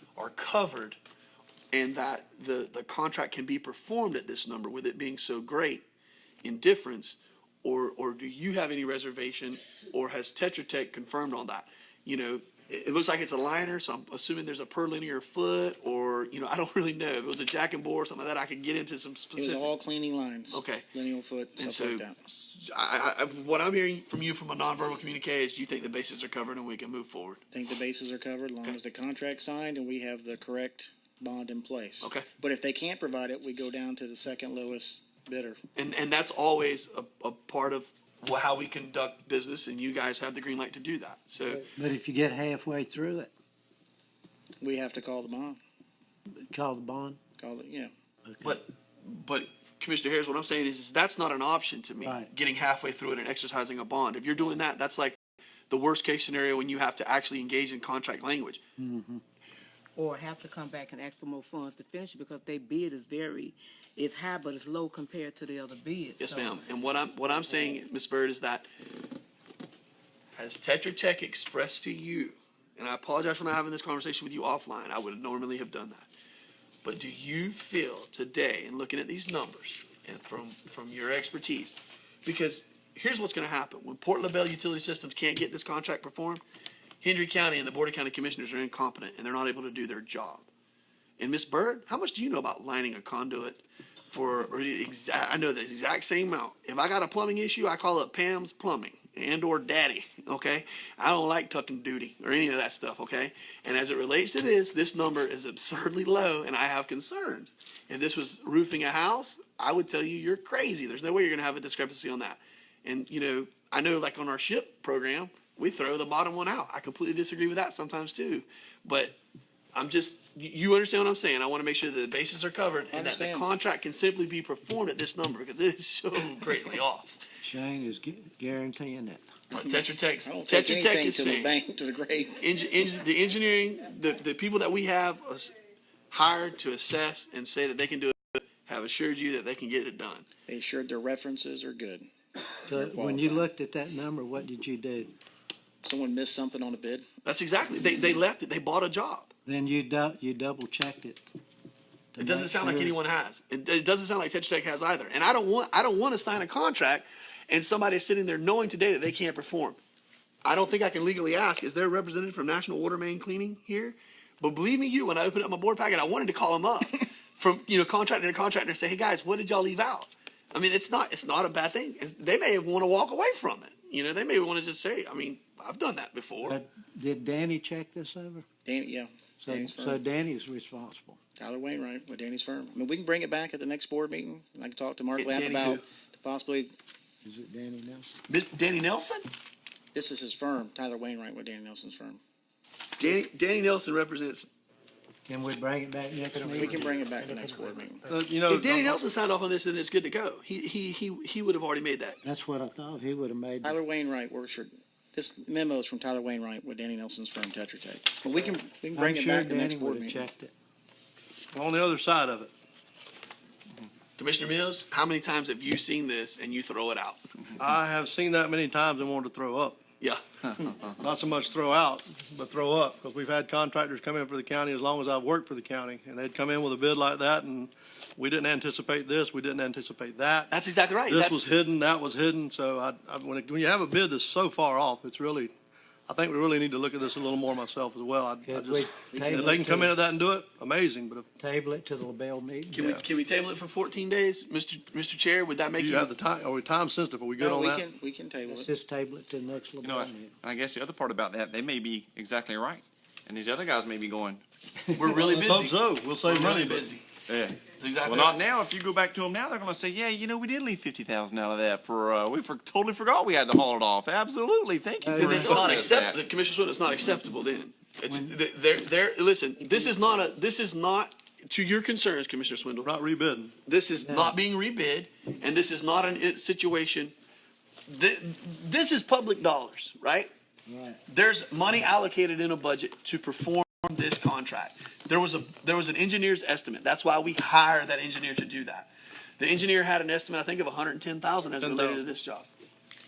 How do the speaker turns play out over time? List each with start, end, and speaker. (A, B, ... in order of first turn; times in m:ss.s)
0:00.2-0:01.0 A
0:01.7-0:05.8 A
0:06.4-0:19.7 A
0:19.4-0:22.2 B
0:20.5-0:20.9 A
0:21.6-0:27.4 A
0:27.5-0:35.6 B
0:35.8-0:41.7 A
0:41.5-0:43.3 C
0:44.6-0:45.6 B
0:46.4-0:47.2 C
0:47.4-0:47.9 B
0:48.2-0:48.6 C
0:48.4-0:55.2 A
0:52.0-0:52.3 C
0:55.7-0:58.6 A
0:58.8-0:59.2 C
1:00.0-1:06.6 D
1:06.2-1:08.7 A
1:10.4-1:16.1 A
1:16.8-1:26.4 A
1:27.0-1:30.5 A
1:31.2-1:59.2 A
1:59.8-2:07.2 A
2:02.9-2:03.5 B
2:07.4-2:09.3 C
2:09.5-2:11.6 A
2:09.6-2:12.4 B
2:12.4-2:15.5 A
2:16.1-2:20.2 A
2:20.5-2:22.1 B
2:22.6-2:23.5 B
2:22.7-2:25.1 C
2:25.8-2:27.1 B
2:27.2-2:29.3 A
2:29.5-2:31.3 C
2:32.1-2:33.0 C
2:32.2-2:39.8 A
2:40.4-2:56.6 A
2:56.5-2:58.4 C
2:58.6-3:00.0 B
2:59.4-3:01.2 C
3:01.4-3:06.7 B
3:05.2-3:05.8 A
3:07.2-3:08.2 C
3:08.3-3:09.3 A
3:09.9-3:12.2 B
3:13.0-3:14.5 A
3:15.3-3:17.7 C
3:16.4-3:18.0 B
3:16.6-3:17.0 E
3:18.0-3:19.0 E
3:18.5-3:22.2 A
3:22.2-3:23.8 C
3:23.6-3:30.2 B
3:28.9-3:30.5 C
3:31.5-3:32.5 E
3:34.2-3:37.2 A
3:37.6-3:39.8 E
3:40.0-3:40.6 A
3:41.0-3:50.5 E
3:50.5-3:51.4 A
3:51.1-3:55.5 E
3:56.1-4:01.3 E
3:58.5-3:59.9 C
3:59.2-3:59.6 B
4:01.4-4:02.9 C
4:02.7-4:06.1 A
4:02.8-4:03.0 E
4:05.8-4:07.8 E
4:07.4-4:08.7 B
4:08.5-4:10.4 C
4:09.8-4:14.4 F
4:14.9-4:15.6 C
4:15.0-4:17.1 A
4:15.2-4:16.9 E
4:17.3-4:26.2 F
4:17.7-4:18.4 A
4:25.0-4:25.4 C
4:25.2-4:33.0 A
4:28.1-4:28.4 C
4:32.8-4:33.6 E
4:33.7-4:37.1 A
4:34.0-4:34.4 C
4:37.9-4:40.3 A
4:40.7-4:41.0 C
4:41.1-4:52.5 A
4:51.6-4:52.1 E